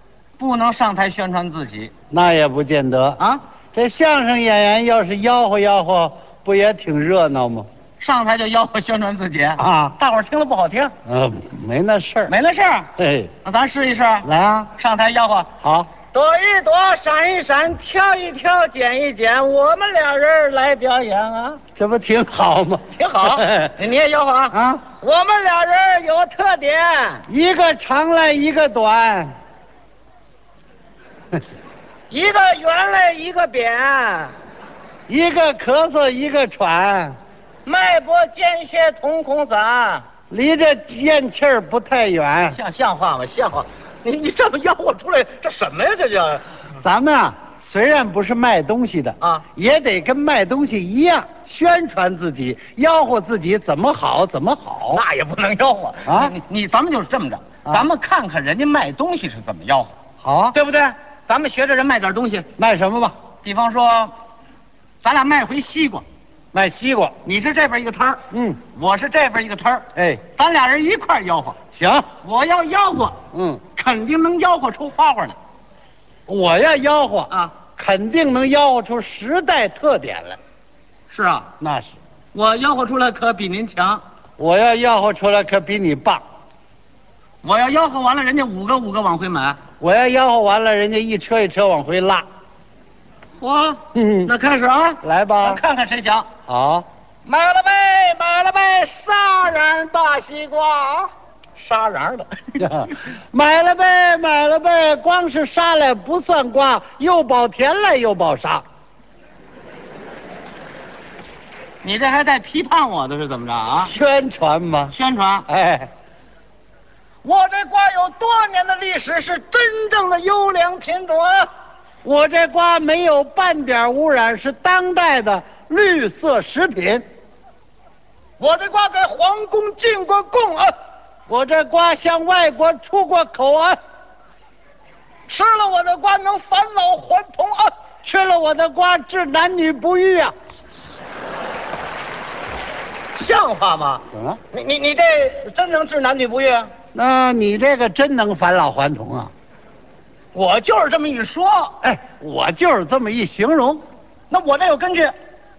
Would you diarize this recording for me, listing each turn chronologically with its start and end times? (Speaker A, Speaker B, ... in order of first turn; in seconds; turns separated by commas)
Speaker A: 0.4-1.9, Speaker B: 2.1-3.2, Speaker B: 3.7-7.7, Speaker A: 8.0-10.9, Speaker B: 9.6-9.9, Speaker B: 11.1-12.3, Speaker A: 12.3-12.9, Speaker B: 13.0-13.3, Speaker A: 13.4-15.5, Speaker B: 14.2-14.7, Speaker B: 15.6-15.9, Speaker A: 16.1-21.6, Speaker B: 21.8-23.7, Speaker A: 22.9-27.2, Speaker B: 24.5-24.8, Speaker B: 27.3-29.3, Speaker A: 32.1-34.3, Speaker B: 35.1-37.1, Speaker A: 37.6-40.0, Speaker B: 40.3-42.6, Speaker A: 42.5-46.4, Speaker B: 46.8-55.0, Speaker A: 49.2-49.4, Speaker A: 54.9-59.9, Speaker B: 56.0-56.3, Speaker B: 60.2-60.5, Speaker A: 60.5-62.5, Speaker B: 62.6-63.1, Speaker A: 63.4-64.1, Speaker A: 65.0-66.0, Speaker B: 66.5-67.1, Speaker A: 67.2-68.2, Speaker B: 68.3-68.6, Speaker A: 68.7-71.6, Speaker B: 70.0-70.2, Speaker B: 71.7-72.1, Speaker A: 72.2-73.2, Speaker B: 73.3-73.6, Speaker A: 73.7-75.3, Speaker B: 76.3-80.4, Speaker A: 77.3-77.5, Speaker A: 81.1-81.5, Speaker B: 81.6-81.9, Speaker A: 82.3-84.0, Speaker B: 84.4-86.2, Speaker A: 87.4-89.6, Speaker B: 89.8-92.2, Speaker A: 93.4-96.3, Speaker B: 93.9-94.3, Speaker B: 95.0-95.6, Speaker B: 96.5-96.8, Speaker A: 97.2-102.7, Speaker B: 102.6-108.6, Speaker A: 111.8-113.9, Speaker B: 113.7-114.9, Speaker A: 114.9-115.5, Speaker B: 115.5-115.9, Speaker A: 117.2-121.5, Speaker B: 122.0-127.0, Speaker A: 128.4-130.7, Speaker B: 131.3-133.8, Speaker A: 135.3-137.7, Speaker B: 138.0-140.3, Speaker A: 143.1-146.7, Speaker B: 144.1-144.4, Speaker B: 146.9-149.3, Speaker A: 150.3-151.8, Speaker B: 151.8-153.8, Speaker A: 154.3-155.1